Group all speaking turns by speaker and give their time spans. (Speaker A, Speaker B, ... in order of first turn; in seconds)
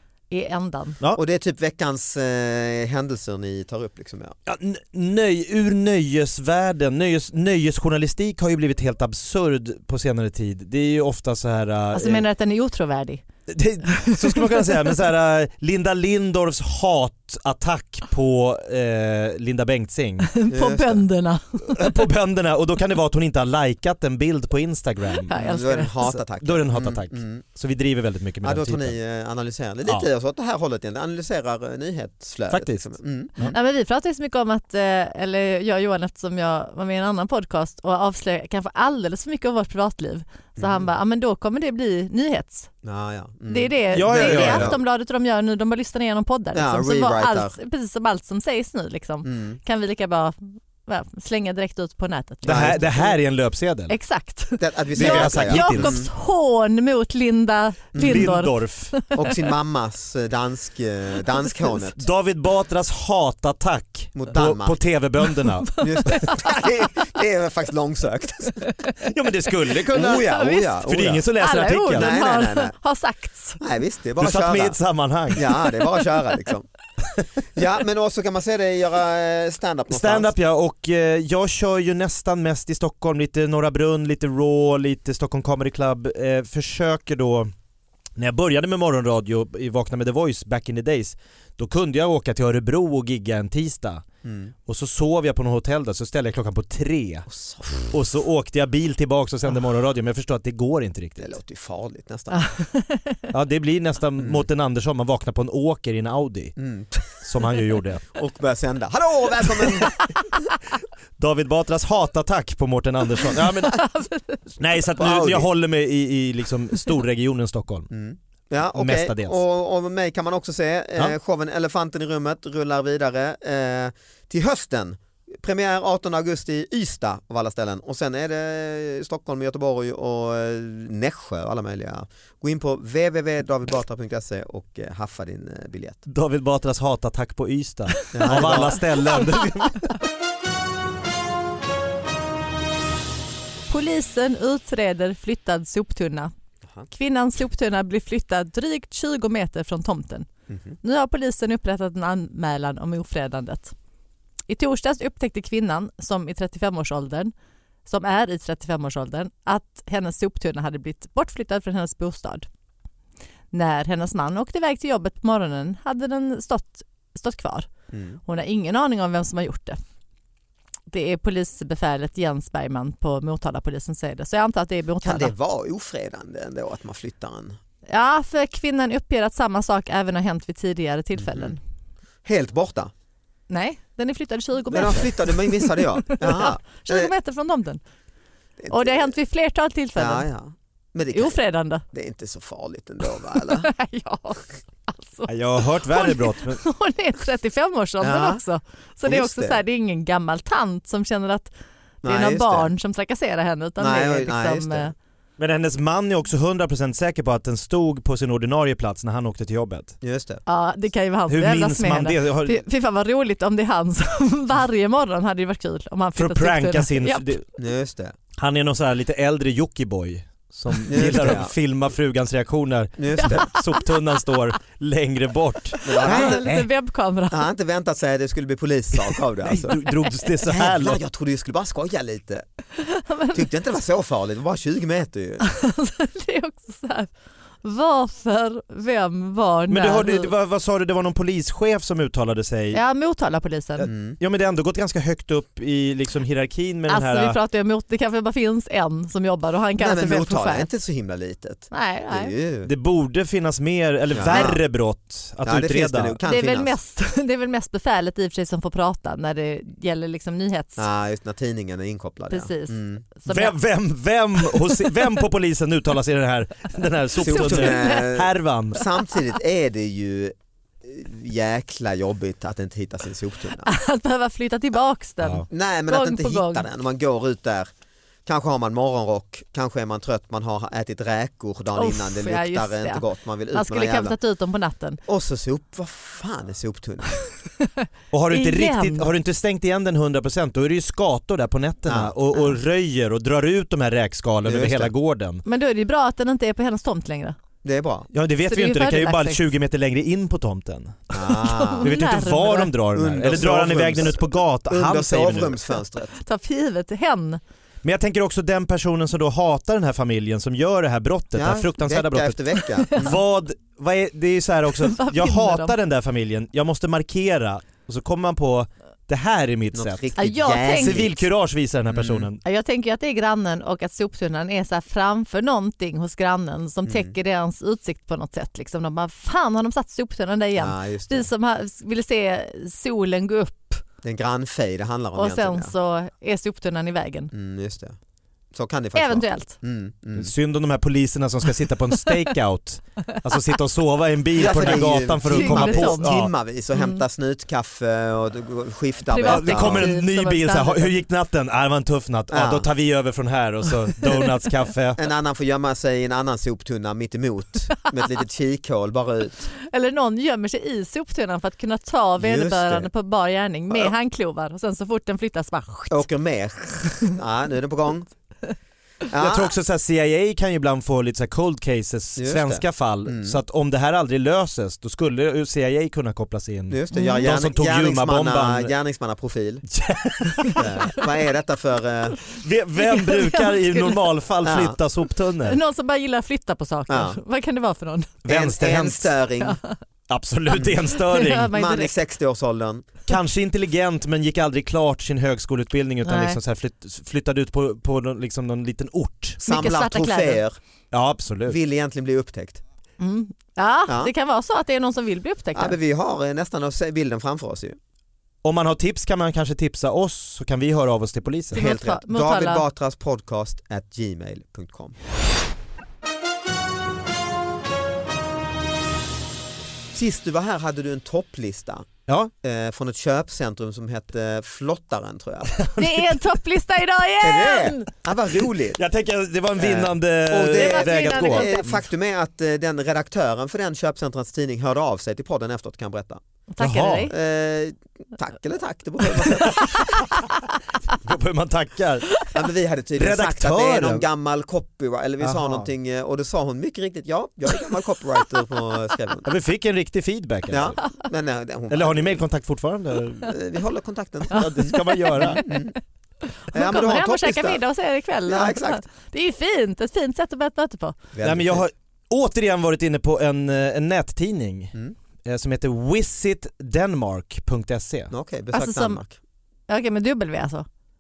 Speaker A: 0.3-1.0, 11.9-13.2, 13.9-14.7, 20.3-22.0, 25.2-26.1, 33.5-42.7, 43.5-52.8, 53.9-59.2, 65.4-66.6, 69.9-70.8, 71.4-73.6, 102.3-103.2, 113.7-114.6, 138.0-139.3, 143.7-146.3, 146.9-150.3, 150.8-153.7, 154.5-157.3, 157.9-162.5, 163.5-167.7, 168.3-169.8, 170.9-175.3, 177.9-181.6, 183.5-187.8, 188.7-190.3, 191.1-191.8, 193.3-201.5, 202.0-204.9, 210.5-217.4, 223.2-223.9, 225.9-227.4, 229.7-230.3, 232.8-233.5, 235.4-237.1, 237.6-240.3, 242.7-243.9, 246.9-250.7, 251.7-252.3, 256.2-260.9, 262.3-263.6, 264.4-265.0, 267.2-268.1, 273.6-276.7, 281.8-285.0, 287.6-289.1, 295.4-297.4, 298.5-299.4, 301.2-302.7, 306.1-307.4, 312.9-313.1, 314.8-315.8, 320.2-321.1, 322.4-333.8, 335.2-337.3, 338.9-339.6, 345.3-346.1, 346.8-347.0, 349.1-350.9, 359.6-366.1, 376.9-377.3, 382.8-384.0, 385.4-388.1, 389.4-389.8, 390.9-391.9, 396.1-396.4, 399.4-400.4, 403.0-405.8, 411.5-412.6, 425.8-427.9, 430.5-431.7, 436.5-437.1, 439.2-440.4, 454.3-455.6, 456.2-461.0, 468.5-469.0, 469.7-470.7
Speaker B: 1.1-4.3, 20.5-21.0, 25.4-27.4, 28.4-33.4, 40.6-40.9, 42.8-44.8, 46.5-47.5, 49.2-49.6, 52.4-53.2, 54.6-56.1, 57.9-58.4, 59.1-62.0, 64.2-64.8, 65.8-68.7, 69.9-71.2, 71.9-72.8, 73.6-74.8, 75.3-76.7, 77.4-80.3, 94.2-94.5, 97.3-97.9, 101.2-102.5, 106.6-107.2, 108.1-109.9, 115.0-115.5, 117.9-136.0, 138.1-138.8, 150.5-150.8, 167.9-168.2, 175.0-177.6, 181.2-181.6, 182.2-182.9, 184.7-187.1, 188.6-189.2, 190.0-193.7, 198.0-198.4, 199.1-199.6, 202.0-202.7, 203.8-204.9, 210.0-210.4, 217.6-218.2, 220.9-221.5, 223.0-223.5, 225.8-226.5, 227.3-229.8, 230.5-232.4, 233.3-235.5, 243.9-244.2, 249.8-252.7, 254.1-254.6, 255.4-256.7, 260.8-263.1, 267.2-273.7, 275.5-277.7, 278.3-284.2, 285.1-287.2, 291.9-292.1, 294.4-294.9, 297.6-298.1, 301.1-301.9, 302.9-306.1, 311.4-313.2, 319.7-321.3, 321.9-322.3, 326.9-327.1, 330.6-331.3, 334.0-335.7, 337.3-338.0, 338.5-340.3, 344.4-349.9, 352.3-352.7, 355.0-359.5, 362.2-362.9, 365.9-368.1, 369.1-369.5, 372.2-373.4, 376.7-379.6, 380.6-382.2, 384.4-384.8, 386.9-387.2, 388.3-389.6, 390.5-390.8, 391.5-392.9, 399.4-400.6, 401.5-402.6, 403.9-404.1, 405.5-407.8, 411.5-415.0, 419.9-421.9, 422.4-425.6, 427.2-428.8, 429.6-436.2, 437.1-439.8, 442.3-449.3, 450.5-452.2, 453.2-455.8, 456.5-457.6, 458.2-458.8, 461.1-461.7, 468.1-469.2
Speaker C: 4.5-12.2, 13.5-20.3, 21.7-25.5, 26.0-29.0, 32.5-33.6, 43.9-44.7, 52.5-53.9, 55.0-56.0, 58.0-59.0, 61.8-66.3, 69.0-72.1, 74.2-75.5, 79.9-87.5, 88.2-94.0, 94.7-97.3, 97.9-101.4, 103.3-106.6, 107.2-108.0, 109.8-110.1, 111.2-113.9, 114.6-117.9, 118.8-119.4, 136.1-139.9, 195.3-196.6, 205.4-209.9, 211.3-212.6, 216.2-217.4, 218.4-226.7, 229.1-231.0, 239.7-242.8, 243.8-247.4, 252.6-256.2, 263.3-268.8, 288.1-295.4, 298.1-301.1, 301.8-305.6, 307.8-320.1, 320.8-322.4, 340.2-346.3, 349.2-355.0, 369.2-378.7, 379.7-380.7, 382.3-385.6, 388.2-389.1, 390.1-391.5, 393.1-399.4, 400.9-401.6, 408.4-411.6, 425.5-426.1, 428.8-431.8, 436.6-437.1, 441.0-442.2, 443.0-444.1, 445.2-445.7, 449.2-450.8, 451.7-453.4, 454.3-455.4, 461.2-468.1